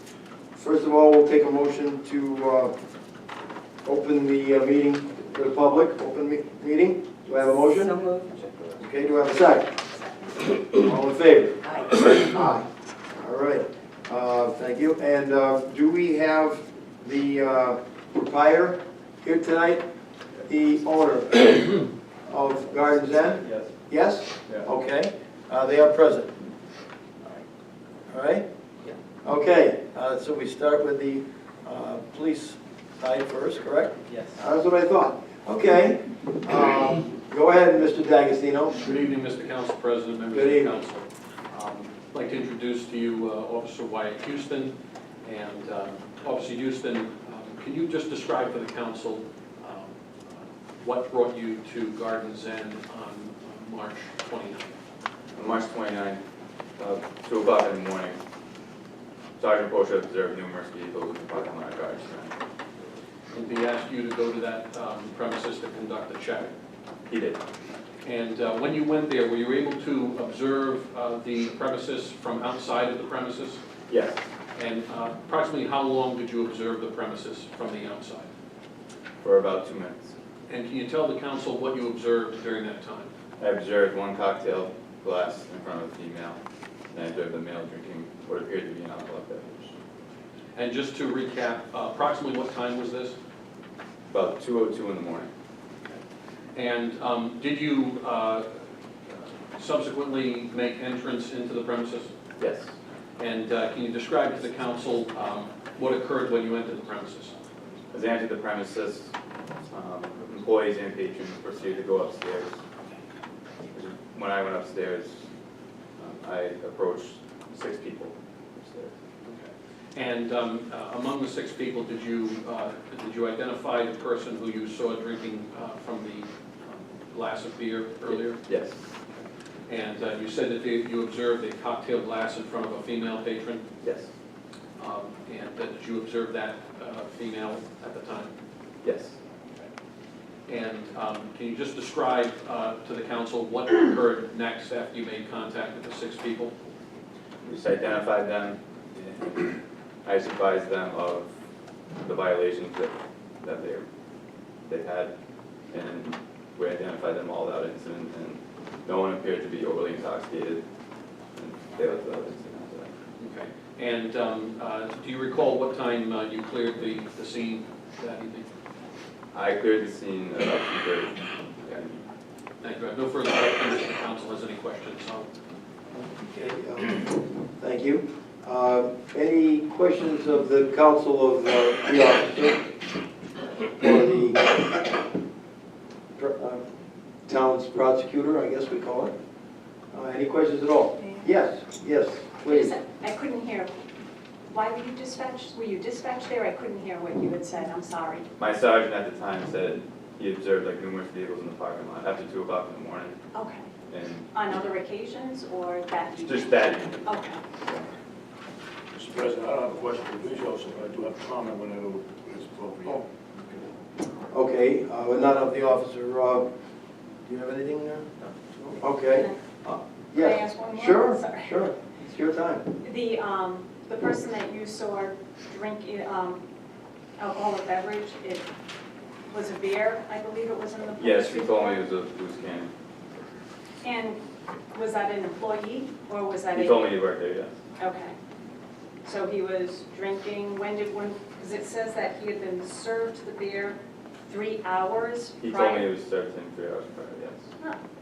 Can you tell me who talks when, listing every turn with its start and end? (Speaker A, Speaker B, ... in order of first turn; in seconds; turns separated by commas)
Speaker A: 0.6-2.7, Speaker A: 3.9-8.0, Speaker A: 8.8-9.8, Speaker A: 10.6-12.7, Speaker A: 13.2-19.8, Speaker A: 20.4-26.3, Speaker B: 23.4-23.7, Speaker A: 28.1-28.4, Speaker A: 29.2-38.8, Speaker C: 38.8-54.8, Speaker A: 40.3-40.7, Speaker B: 55.4-56.2, Speaker B: 56.8-58.2, Speaker B: 59.4-62.4, Speaker C: 63.3-66.5, Speaker B: 67.1-67.4, Speaker C: 68.0-73.6, Speaker B: 73.9-74.2, Speaker C: 74.5-78.3, Speaker B: 79.2-80.1, Speaker C: 80.5-83.1, Speaker B: 83.4-86.4, Speaker B: 86.9-89.8, Speaker C: 90.5-93.2, Speaker B: 94.1-95.3, Speaker C: 96.5-102.1, Speaker B: 102.4-102.7, Speaker C: 103.2-107.4, Speaker B: 107.9-112.6, Speaker B: 113.7-115.3, Speaker B: 116.0-119.0, Speaker C: 119.2-128.4, Speaker B: 128.1-128.9, Speaker C: 129.7-133.7, Speaker B: 133.8-134.1, Speaker C: 134.8-138.3, Speaker B: 138.8-139.2, Speaker C: 140.5-146.6, Speaker B: 147.4-151.3, Speaker B: 152.0-153.9, Speaker B: 154.7-155.1, Speaker B: 155.7-160.6, Speaker B: 161.4-162.9, Speaker C: 163.2-168.5, Speaker B: 169.3-172.0, Speaker C: 172.6-175.3, Speaker A: 175.9-182.7, Speaker A: 183.6-184.8, Speaker A: 186.2-186.6, Speaker A: 187.3-189.1, Speaker A: 189.9-192.8, Speaker D: 192.5-193.8, Speaker D: 194.5-198.3, Speaker B: 198.4-203.2, Speaker D: 203.3-203.7, Speaker B: 203.9-204.3, Speaker D: 204.3-207.4, Speaker B: 206.2-207.9, Speaker E: 208.9-213.7, Speaker A: 214.3-216.4, Speaker A: 217.3-218.1, Speaker A: 218.7-222.7, Speaker D: 220.2-221.6, Speaker D: 222.8-226.4, Speaker D: 227.2-228.5, Speaker D: 229.3-231.8, Speaker B: 231.0-232.7, Speaker D: 233.8-234.2, Speaker D: 234.7-236.9, Speaker B: 236.5-237.6, Speaker D: 237.8-238.2, Speaker D: 239.0-245.9, Speaker B: 245.4-247.5